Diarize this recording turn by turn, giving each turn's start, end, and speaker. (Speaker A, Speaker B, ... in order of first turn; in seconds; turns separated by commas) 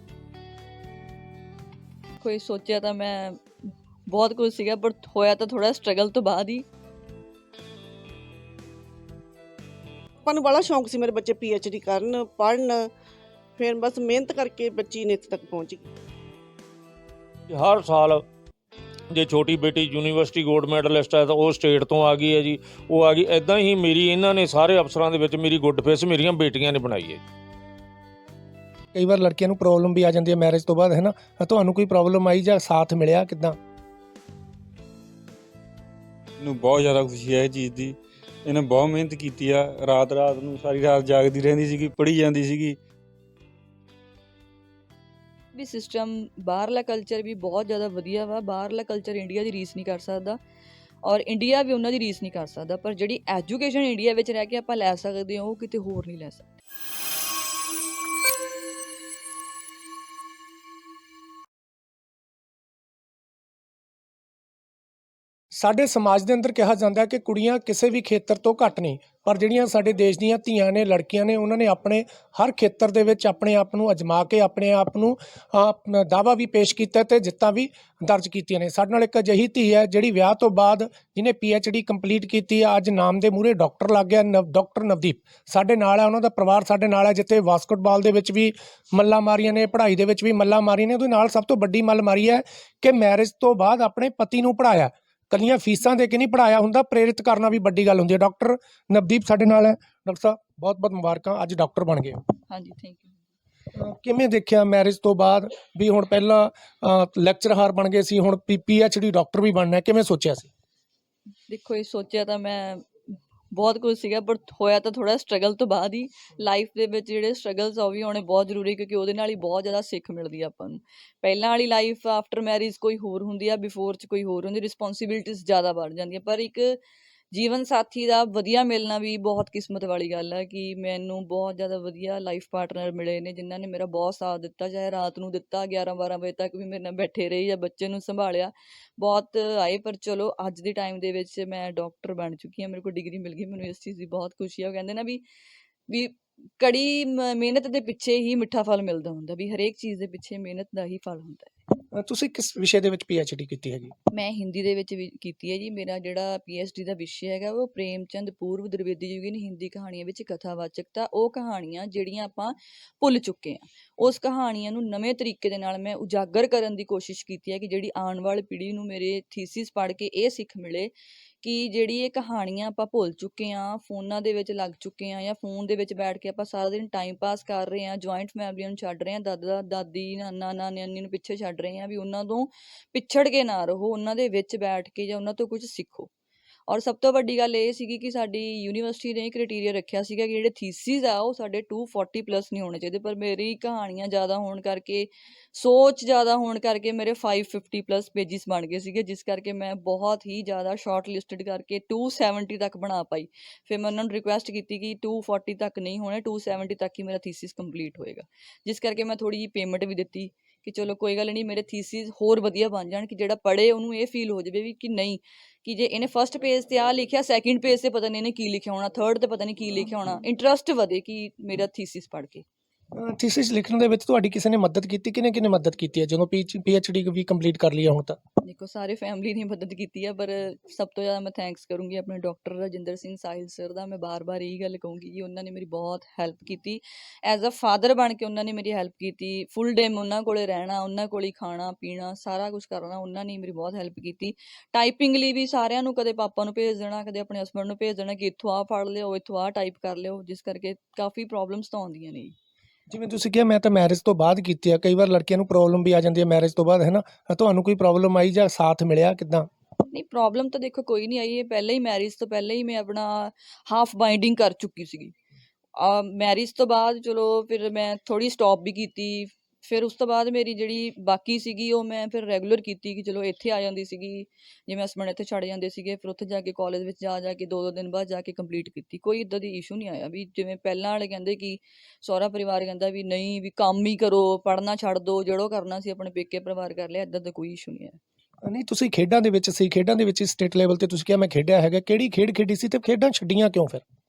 Speaker A: 2.2-3.4, Speaker A: 4.1-6.6, Speaker B: 10.2-12.9, Speaker B: 13.6-15.9, Speaker C: 17.5-18.2, Speaker C: 19.1-27.2, Speaker D: 28.9-33.6, Speaker E: 36.4-42.8, Speaker A: 45.5-50.4, Speaker A: 51.0-56.5, Speaker D: 65.5-102.2, Speaker A: 102.5-103.2, Speaker D: 103.7-110.5, Speaker A: 111.5-126.8, Speaker A: 127.3-145.2, Speaker A: 145.9-151.5, Speaker D: 151.9-153.9, Speaker A: 154.1-186.1, Speaker A: 186.7-222.4, Speaker D: 222.9-228.2, Speaker A: 228.4-252.3, Speaker D: 252.9-259.5, Speaker A: 259.9-265.1, Speaker A: 265.8-288.0, Speaker D: 288.4-293.8